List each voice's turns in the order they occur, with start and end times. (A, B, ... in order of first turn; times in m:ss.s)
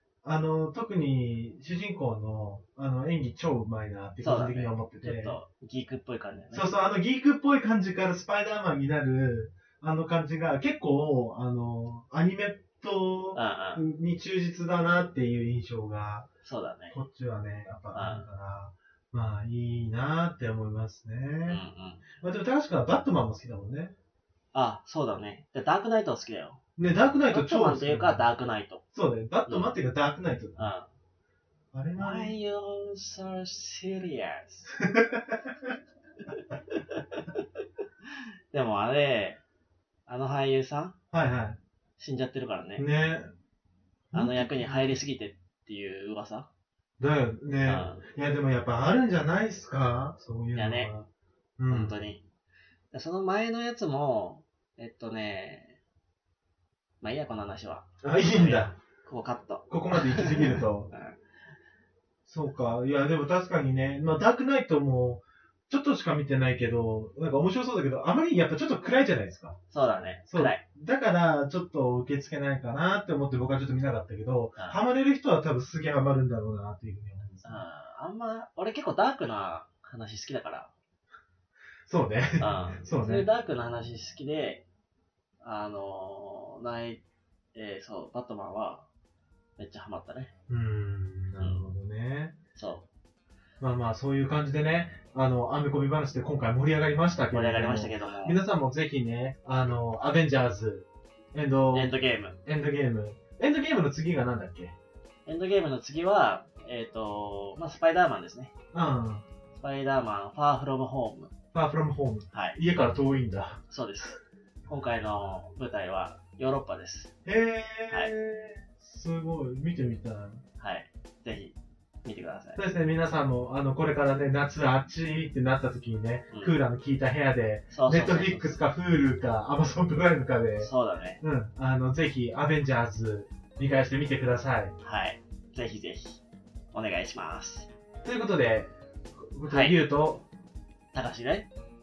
0:00.2-0:05.4 A
0:04.2-0:06.7 B
0:06.5-0:16.3 A
0:13.4-0:13.8 B
0:16.4-0:17.0 B
0:16.9-0:21.6 A
0:17.9-0:18.3 B
0:21.5-0:22.0 B
0:22.2-0:23.9 A
0:24.5-0:26.6 B
0:26.8-0:28.2 A
0:27.3-0:28.8 B
0:28.9-0:30.7 A
0:29.5-0:29.7 B
0:30.6-0:30.9 B
0:31.7-0:32.4 A
0:32.0-0:34.7 B
0:34.8-0:35.5 A
0:36.3-0:37.4 B
0:38.1-0:39.4 B
0:40.1-0:41.0 B
0:41.1-0:41.6 A
0:42.0-0:42.9 B
0:42.8-0:43.3 A
0:44.1-0:45.0 A
0:44.1-0:46.5 B
0:47.0-0:52.0 A
0:47.6-0:48.1 B
0:50.6-0:50.9 B
0:51.7-0:52.2 B
0:52.9-0:55.8 B
0:57.0-1:01.2 B
0:58.0-0:58.8 A
0:59.7-1:00.9 A
1:02.3-1:09.6 A
1:09.7-1:10.6 B
1:10.3-1:17.6 A
1:17.4-1:20.7 B
1:21.9-1:23.3 A
1:22.4-1:24.6 B
1:25.4-1:27.0 B
1:27.6-1:28.9 B
1:29.6-1:30.3 B
1:30.5-1:32.4 A
1:31.4-1:31.7 B
1:32.6-1:32.9 B
1:33.6-1:41.9 A
1:37.3-1:38.4 B
1:41.7-1:42.4 B
1:42.4-1:44.8 A
1:45.3-1:48.5 B
1:48.7-1:49.2 A
1:49.5-1:51.3 B
1:51.5-1:53.6 A
1:52.3-1:52.6 B
1:53.7-1:57.1 B
1:57.2-2:00.4 A
2:00.6-2:02.6 B
2:02.6-2:14.8 A
2:06.3-2:06.6 B
2:07.7-2:08.6 B
2:10.6-2:11.2 B
2:14.8-2:16.2 B
2:16.7-2:17.7 B
2:18.0-2:20.3 A
2:19.5-2:19.8 B
2:20.9-2:21.5 B